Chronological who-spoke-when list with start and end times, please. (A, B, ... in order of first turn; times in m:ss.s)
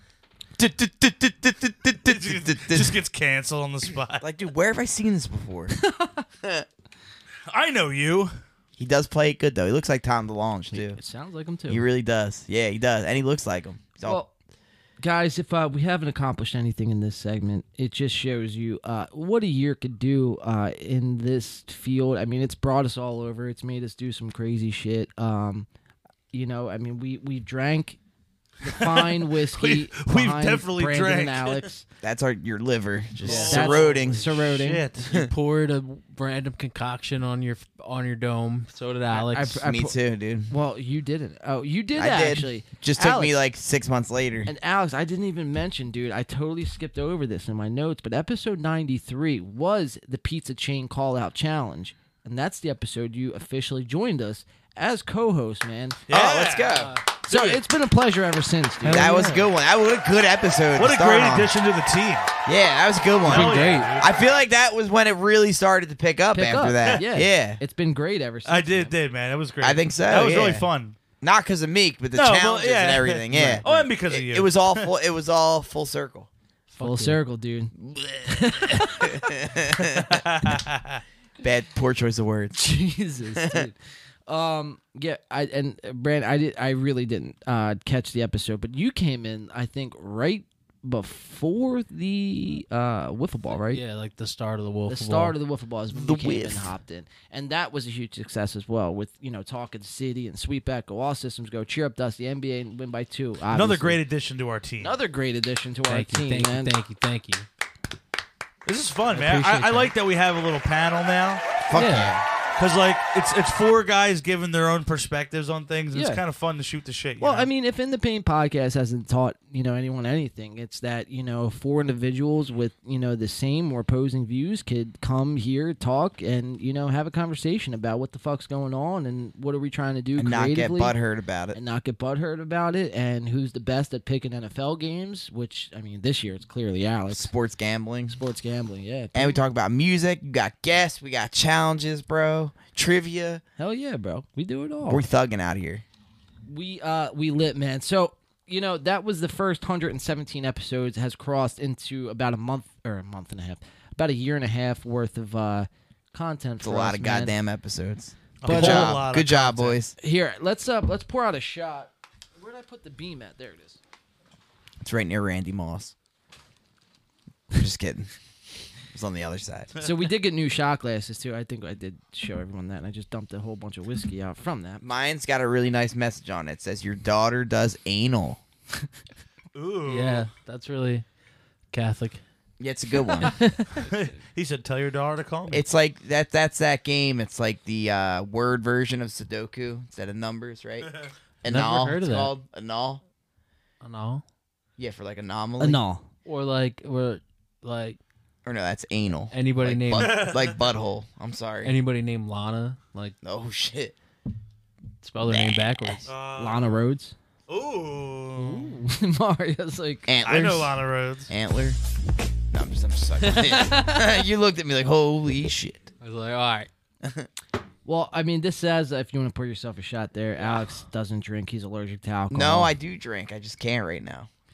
0:00.6-0:03.0 A
0:02.0-0:04.3 B
0:04.2-0:05.7 A
0:05.9-0:06.2 C
0:07.5-0:08.3 B
0:08.8-0:11.0 A
0:10.7-0:11.9 C
0:11.7-0:14.2 A
0:14.0-0:14.3 C
0:15.0-0:25.7 C
0:26.3-0:28.0 C
0:28.6-0:31.9 C
0:28.7-0:31.6 B
0:32.0-0:34.4 A
0:33.2-0:35.1 B
0:33.3-0:34.9 C
0:35.0-0:35.3 A
0:35.1-0:39.6 D
0:39.1-0:40.0 C
0:39.6-0:40.5 A
0:40.5-0:43.4 C
0:42.0-0:44.5 A
0:44.5-0:56.0 C
0:56.1-0:57.6 B
0:56.1-0:57.0 A
0:56.8-0:57.0 D
0:57.2-0:59.4 C
0:58.8-0:59.4 D
0:58.9-1:01.5 A
1:00.8-1:02.3 B
1:02.5-1:07.6 A
1:03.2-1:04.2 B
1:03.3-1:03.9 C
1:06.3-1:08.9 C
1:08.4-1:11.0 B
1:09.6-1:10.7 A
1:11.2-1:16.3 A
1:12.2-1:14.9 B
1:13.3-1:13.8 C
1:16.8-1:17.7 C
1:16.8-1:17.2 D
1:17.8-1:20.3 A
1:18.3-1:19.3 C
1:20.0-1:21.0 B
1:21.4-1:22.6 A
1:22.6-1:23.8 C
1:23.4-1:23.7 A
1:24.3-1:33.8 C
1:33.7-1:35.4 D
1:34.9-1:44.0 C
1:35.9-1:36.7 A
1:43.5-1:45.0 B
1:44.8-1:46.8 C
1:45.9-1:47.5 D
1:48.6-1:51.4 B
1:49.1-1:49.9 D
1:51.7-1:52.2 A
1:51.7-1:52.1 D
1:51.9-1:52.2 C
1:52.6-1:57.5 B
1:55.9-1:56.2 C
1:57.2-2:11.0 C
2:10.2-2:11.6 A
2:11.5-2:17.3 C
2:17.1-2:18.2 A
2:18.1-2:19.4 C
2:19.1-2:23.4 A
2:23.6-2:25.1 C
2:24.9-2:25.8 A
2:26.5-2:37.4 C
2:36.6-2:40.0 A
2:38.4-2:39.8 B
2:38.4-2:39.0 C
2:40.0-2:43.8 C
2:44.8-2:45.9 A
2:47.5-2:48.1 A
2:48.9-2:49.7 A
2:49.8-2:54.8 C
2:54.8-2:58.4 A
2:59.5-3:00.3 B
2:59.9-3:01.1 D
3:01.7-3:02.2 D
3:02.6-3:03.4 A
3:03.2-3:03.8 D
3:03.8-3:05.6 B
3:05.5-3:13.0 A
3:11.5-3:12.4 D
3:13.8-3:14.2 D
3:14.8-3:15.8 A
3:15.6-3:16.1 C
3:16.3-3:18.0 D
3:18.4-3:21.8 A
3:19.3-3:20.4 D
3:20.0-3:20.7 B
3:21.6-3:23.2 D
3:23.2-3:24.0 A
3:25.0-3:26.1 D
3:25.2-3:26.1 A
3:26.1-3:26.8 B
3:26.4-3:27.2 C
3:27.5-3:28.8 B
3:28.4-3:30.1 C
3:30.1-3:31.8 A
3:30.2-3:31.3 B
3:32.5-3:35.9 A
3:33.2-3:34.0 D
3:36.0-3:36.7 D
3:37.0-3:37.3 A
3:37.8-3:42.7 C
3:42.3-3:44.3 A